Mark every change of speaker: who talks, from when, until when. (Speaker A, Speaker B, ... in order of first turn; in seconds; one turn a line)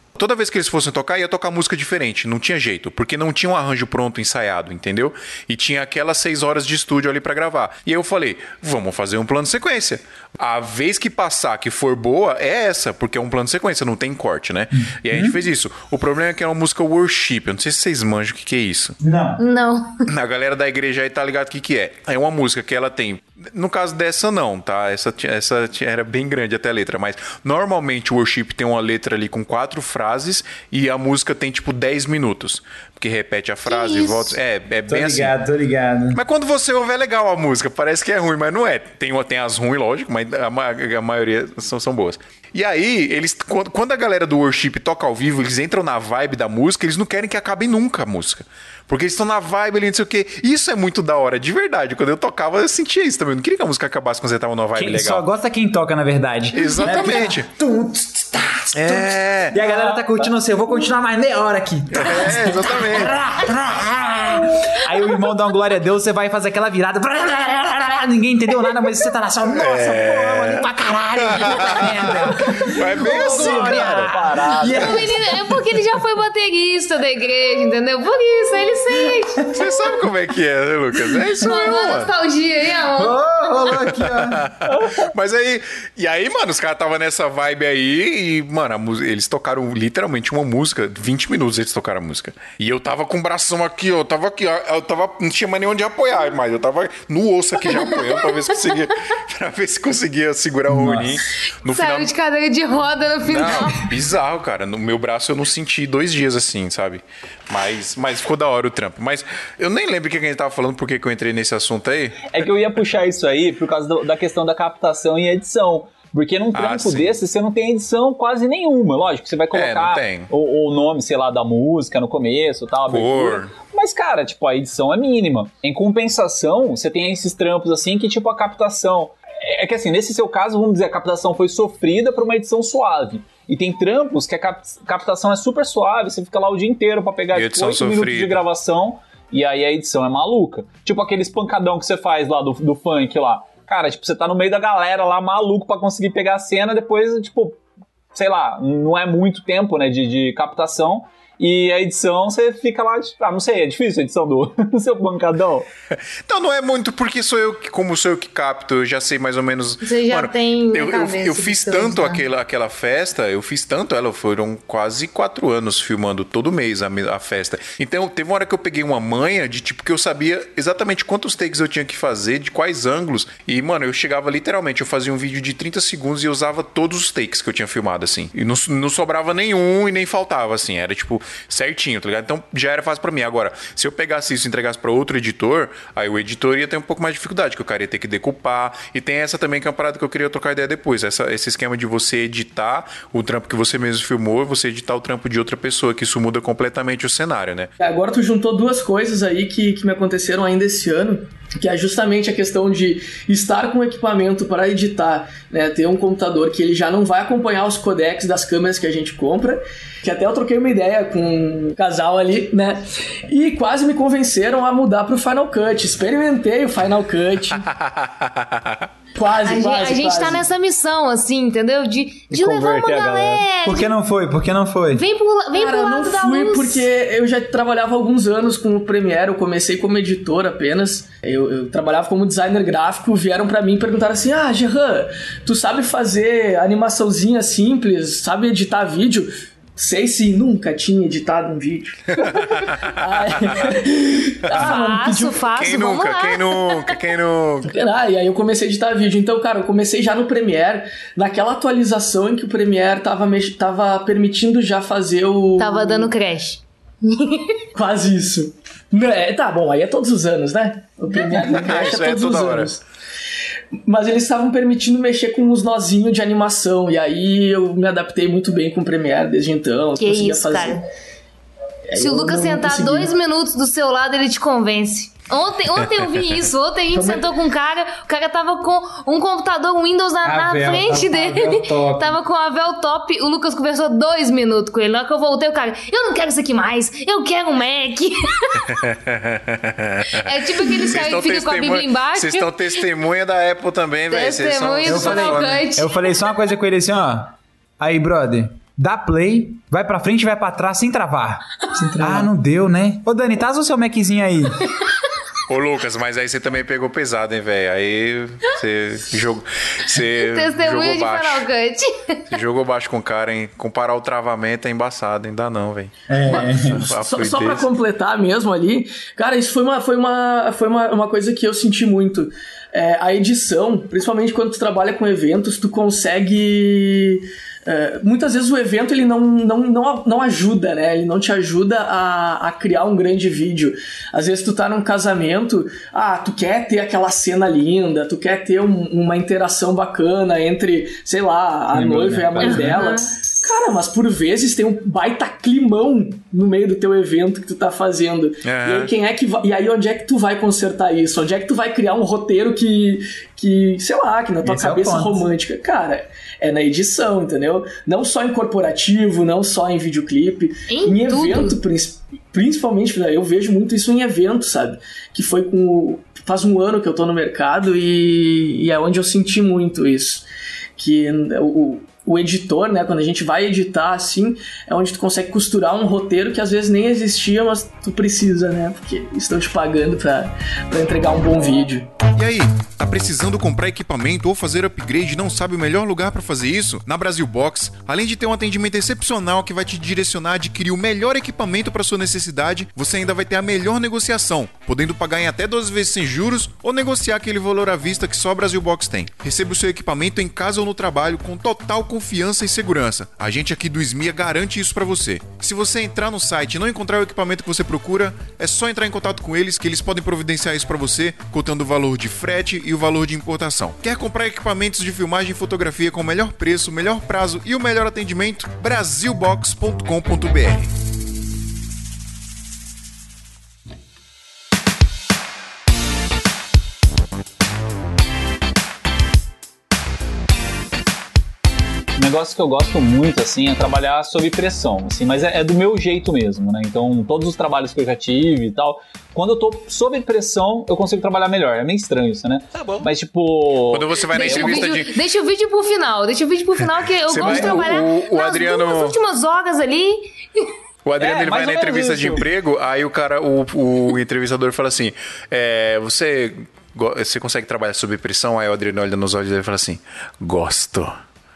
Speaker A: 0.2-19.0
Speaker B: 14.8-15.4
Speaker B: 19.0-19.4
Speaker C: 19.4-20.0
Speaker A: 20.1-35.4
Speaker C: 33.7-34.4
Speaker B: 34.9-36.2
Speaker A: 36.1-55.2
Speaker B: 54.8-75.6
Speaker A: 56.5-57.5
Speaker A: 58.7-59.6
Speaker D: 59.6-60.2
Speaker A: 61.9-63.1
Speaker A: 69.6-74.1
Speaker D: 73.0-75.1
Speaker C: 74.6-79.6
Speaker A: 79.5-82.1
Speaker C: 81.4-83.2
Speaker B: 83.0-84.5
Speaker A: 83.7-102.1
Speaker D: 84.7-85.1
Speaker C: 97.7-98.0
Speaker B: 100.7-101.2
Speaker C: 101.7-103.9
Speaker A: 103.2-112.4
Speaker D: 112.3-147.6
Speaker A: 116.5-117.2
Speaker A: 119.5-120.3
Speaker A: 122.9-123.5
Speaker A: 137.3-138.4
Speaker D: 148.1-155.7
Speaker A: 156.3-197.7
Speaker C: 159.8-162.2
Speaker E: 197.8-217.7
Speaker A: 217.7-218.9
Speaker E: 219.2-220.4
Speaker C: 219.4-223.9
Speaker D: 222.3-223.4
Speaker B: 223.6-225.0
Speaker C: 224.9-226.9
Speaker E: 225.5-245.4
Speaker A: 242.1-243.5
Speaker A: 244.5-244.8
Speaker C: 244.5-247.0
Speaker A: 245.5-247.7
Speaker E: 247.7-256.1
Speaker C: 255.6-257.6
Speaker E: 257.8-262.8
Speaker C: 261.1-261.5
Speaker A: 261.3-262.7
Speaker E: 263.9-270.8
Speaker C: 270.0-270.9
Speaker E: 271.9-273.1
Speaker C: 271.9-288.7
Speaker E: 276.9-277.3
Speaker B: 280.2-282.2
Speaker A: 288.6-295.6
Speaker C: 290.1-292.8
Speaker C: 294.1-296.3
Speaker B: 294.8-304.6
Speaker E: 302.0-302.3
Speaker A: 305.5-311.5
Speaker C: 310.0-312.2
Speaker A: 312.3-317.7
Speaker B: 316.1-316.9
Speaker E: 316.2-370.3
Speaker B: 341.7-342.8
Speaker C: 342.4-343.1
Speaker A: 348.4-348.9
Speaker B: 354.4-355.2
Speaker C: 360.7-361.6
Speaker E: 370.8-381.9
Speaker A: 382.1-420.7
Speaker D: 431.9-444.8
Speaker A: 443.7-444.9
Speaker C: 444.1-450.5
Speaker A: 447.1-449.0
Speaker D: 447.1-447.6
Speaker A: 450.9-461.0
Speaker D: 451.0-452.3